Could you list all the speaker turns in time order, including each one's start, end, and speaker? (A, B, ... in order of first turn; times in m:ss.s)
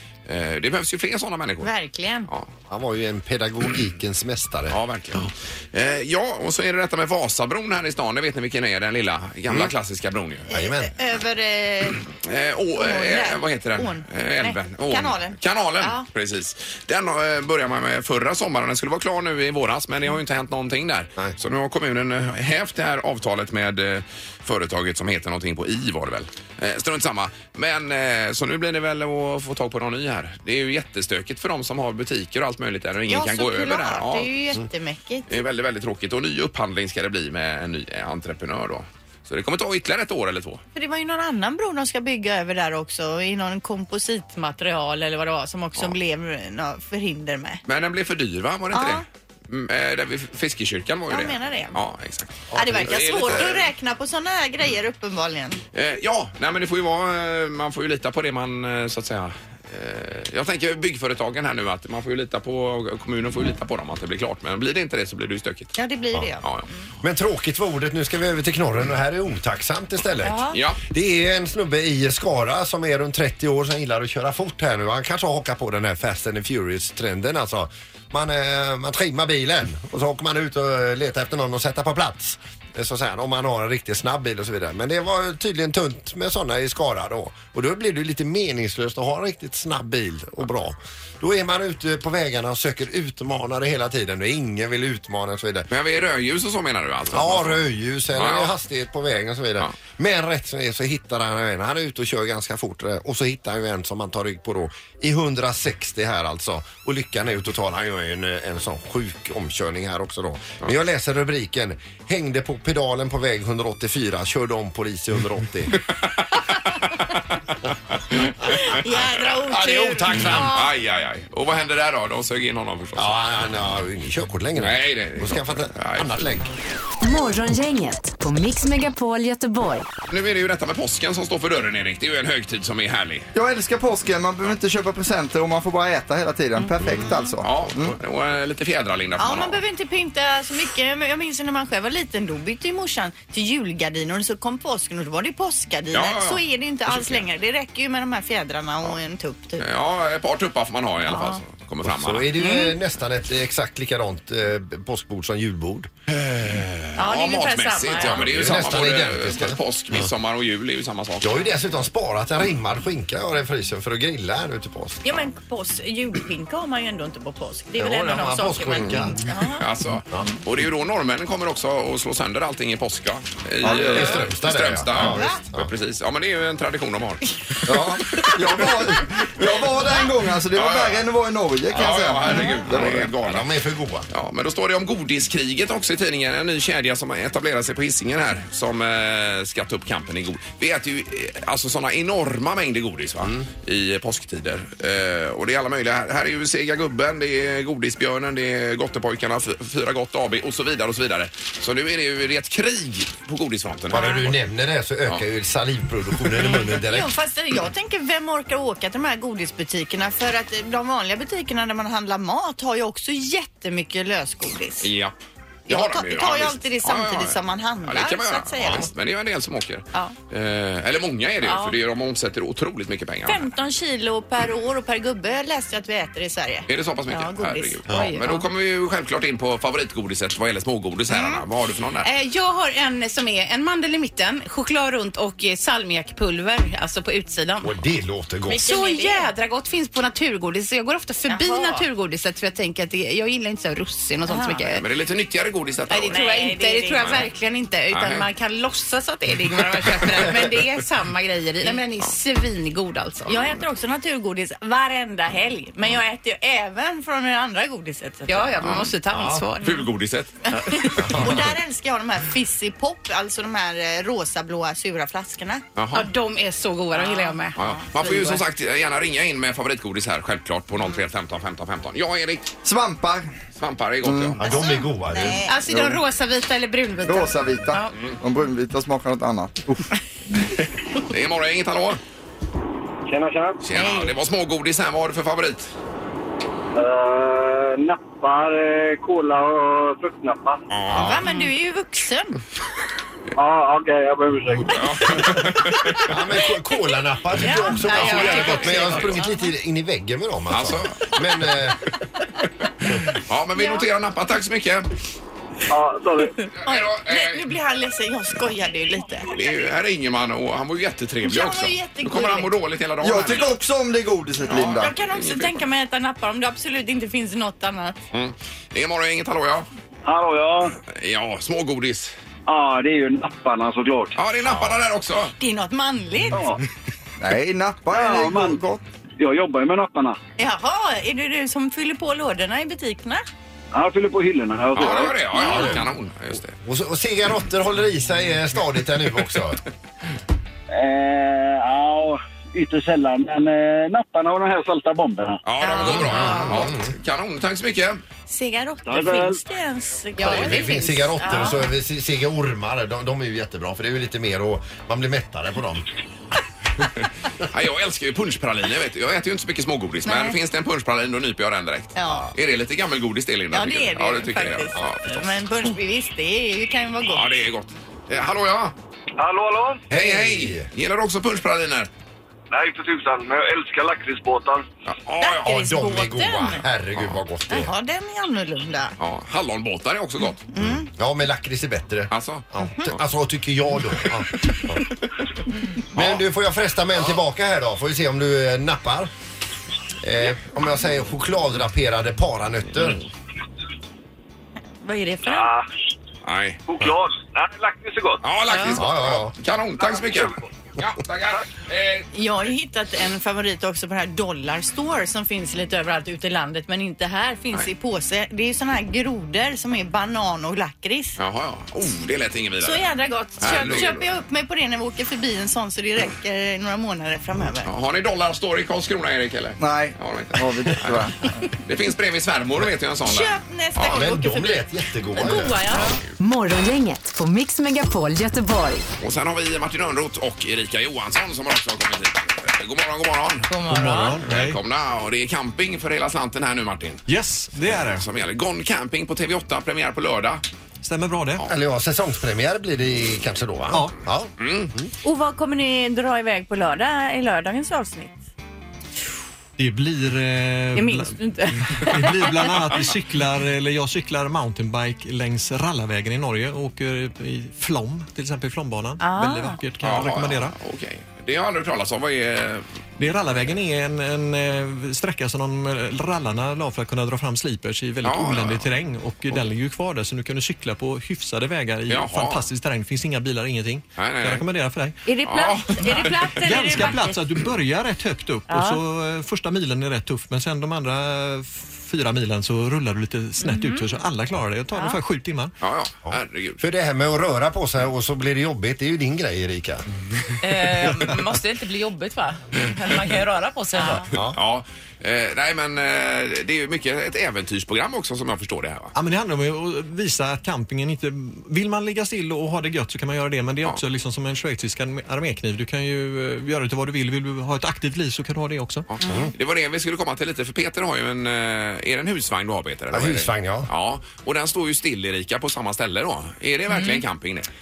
0:00.3-0:01.7 A
0:01.6-0:02.3 B
0:02.7-0:04.8 C
0:04.7-0:10.5 A
0:10.5-0:10.9 C
0:10.5-0:12.0 B
0:12.1-0:34.3 A
0:12.7-0:16.0 B
0:33.1-0:35.3 B
0:35.3-0:40.6 A
0:40.7-0:47.6 B
0:47.6-0:53.7 A
0:48.7-0:49.0 B
0:51.1-0:51.8 B
0:52.5-0:53.3 C
0:52.5-0:55.6 B
0:55.7-1:05.7 A
1:05.8-1:06.4 B
1:07.0-1:35.7 C
1:10.2-1:10.6 B
1:10.5-1:10.8 A
1:35.7-1:37.6 A
1:37.1-1:55.8 C
1:38.1-1:38.5 A
1:58.1-2:03.2 A
1:58.5-2:00.7 B
1:59.5-2:00.6 C
2:03.0-2:06.5 C
2:04.6-2:06.2 A
2:07.0-2:09.8 D
2:10.1-2:13.3 A
2:13.3-2:17.9 E
2:17.0-2:17.3 B
2:17.4-2:19.6 A
2:19.2-2:29.6 B
2:25.9-2:27.3 A
2:29.6-2:32.3 A
2:31.0-2:31.4 B
2:31.8-2:35.9 C
2:32.4-2:32.7 F
2:36.1-2:41.5 A
2:37.0-2:38.5 B
2:38.0-2:40.1 C
2:41.2-2:45.2 C
2:45.0-2:49.6 B
2:47.7-2:49.3 C
2:49.6-2:57.6 A
2:53.6-2:54.2 E
2:53.7-2:55.7 C
2:54.9-2:55.4 B
2:57.6-3:03.0 E
3:00.5-3:01.0 A
3:01.7-3:03.5 A
3:02.3-3:02.6 B
3:02.7-3:04.1 C
3:04.1-3:24.3 A
3:13.2-3:13.5 C
3:23.9-3:27.1 C
3:23.9-3:24.2 B
3:26.5-3:34.9 B
3:34.8-3:43.5 A
3:35.7-3:38.9 B
3:41.4-3:41.7 B
3:43.2-3:48.2 B
3:46.7-3:52.1 A
3:51.1-3:51.4 B
3:52.0-3:57.7 F
3:57.6-3:58.7 C
3:58.5-4:04.8 F
3:58.6-3:59.3 B
4:01.3-4:01.9 B
4:04.2-4:04.7 B
4:04.7-4:06.2 A
4:05.9-4:13.4 F
4:06.1-4:07.3 B
4:07.0-4:07.2 A
4:07.9-4:08.3 A
4:09.6-4:10.6 A
4:13.3-4:18.7 B
4:18.3-4:19.8 F
4:18.6-4:18.9 A
4:19.1-4:19.4 C
4:19.6-4:21.5 A
4:20.5-4:25.6 B
4:21.0-4:21.4 C
4:25.8-4:26.1 A
4:25.9-4:27.6 F
4:26.9-4:28.4 B
4:27.6-4:32.5 A
4:32.6-4:33.3 E
4:33.6-4:34.4 A
4:34.0-4:34.4 E
4:34.4-4:35.4 C
4:34.4-4:35.8 B
4:35.4-4:37.9 F
4:37.0-4:39.8 E
4:41.0-4:42.0 A
4:43.1-4:43.6 G
4:43.6-4:45.7 A
4:43.7-4:44.1 B
4:46.7-4:50.6 G
4:50.7-4:51.2 A
4:50.9-4:51.2 C
4:50.9-4:52.4 B
4:53.4-4:55.3 G
4:54.6-4:56.1 A
4:56.0-5:01.8 C
4:57.4-4:59.4 B
4:57.7-4:58.7 F
4:57.9-4:59.2 A
5:00.5-5:01.5 A
5:03.0-5:04.9 A
5:03.6-5:03.8 B
5:05.7-5:06.4 G
5:06.6-5:07.5 A
5:06.6-5:09.3 B
5:09.3-5:13.5 A
5:11.2-5:12.5 B
5:13.0-5:14.9 E
5:14.4-5:15.6 A
5:14.8-5:18.0 B
5:18.1-5:19.7 A
5:20.0-5:20.8 G
5:20.9-5:22.1 A
5:22.5-5:24.2 G
5:24.2-5:25.3 A
5:25.4-5:26.5 B
5:26.3-5:26.6 G
5:27.2-5:28.8 E
5:27.9-5:28.6 G
5:29.2-5:30.2 G
5:30.4-5:33.2 B
5:33.7-5:35.2 G
5:34.7-5:36.6 A
5:34.9-5:35.8 B
5:35.4-5:35.9 C
5:36.6-5:39.6 C
5:40.7-5:45.4 G
5:45.4-5:48.0 A
5:45.6-5:46.7 B
5:45.8-5:46.9 C
5:48.3-5:51.7 B
5:48.8-5:49.4 G
5:50.2-5:55.9 C
5:50.2-5:50.9 F
5:57.0-6:05.4 A
6:00.0-6:00.4 B
6:02.0-6:02.3 B
6:02.0-6:02.3 C
6:03.5-6:07.3 B
6:07.0-6:08.7 A
6:09.2-6:09.8 G
6:09.9-6:10.7 C
6:09.9-6:11.9 A
6:12.5-6:14.7 G
6:14.9-6:15.6 A
6:15.2-6:16.6 B
6:15.4-6:17.7 C
6:17.5-6:18.9 B
6:19.0-6:20.4 A
6:20.5-6:20.9 B
6:20.6-6:24.8 C
6:22.1-6:22.9 A
6:25.9-6:29.1 C
6:25.9-6:26.2 A
6:30.0-6:33.0 C
6:34.8-6:35.5 B
6:35.2-6:35.7 G
6:36.2-6:36.6 A
6:36.7-6:38.2 G
6:38.2-6:42.1 A
6:38.5-6:38.8 B
6:38.7-6:39.3 C
6:39.8-6:40.4 G
6:42.1-6:51.2 B
6:51.2-6:54.1 A
6:52.6-6:57.7 B
6:57.6-7:04.0 A
6:59.6-7:01.2 E
7:03.0-7:06.0 B
7:03.9-7:05.8 C
7:05.7-7:06.0 A
7:06.2-7:08.8 D
7:09.0-7:13.5 A
7:13.5-7:14.2 H
7:13.7-7:14.6 I
7:14.2-7:17.0 A
7:17.1-7:18.0 I
7:17.7-7:20.4 A
7:20.8-7:21.4 I
7:21.5-7:24.9 C
7:24.4-7:24.7 A
7:25.0-7:28.3 B
7:29.6-7:40.5 I
7:30.7-7:32.9 B
7:39.0-7:39.6 B
7:39.8-7:42.8 A
7:43.0-7:55.0 I
7:48.0-7:48.7 A
7:51.9-7:52.4 A
7:54.0-7:54.4 A
7:55.0-7:57.4 B
7:55.2-7:57.0 A
7:56.3-8:05.5 I
7:58.5-7:58.8 B
8:03.4-8:03.8 B
8:04.7-8:05.0 B
8:05.6-8:06.6 A
8:06.1-8:09.8 C
8:10.4-8:14.1 H
8:13.7-8:14.0 B
8:14.3-8:18.9 A
8:18.9-8:28.9 I
8:28.9-8:37.5 A
8:29.0-8:29.3 C
8:32.9-8:33.7 C
8:36.7-8:37.0 H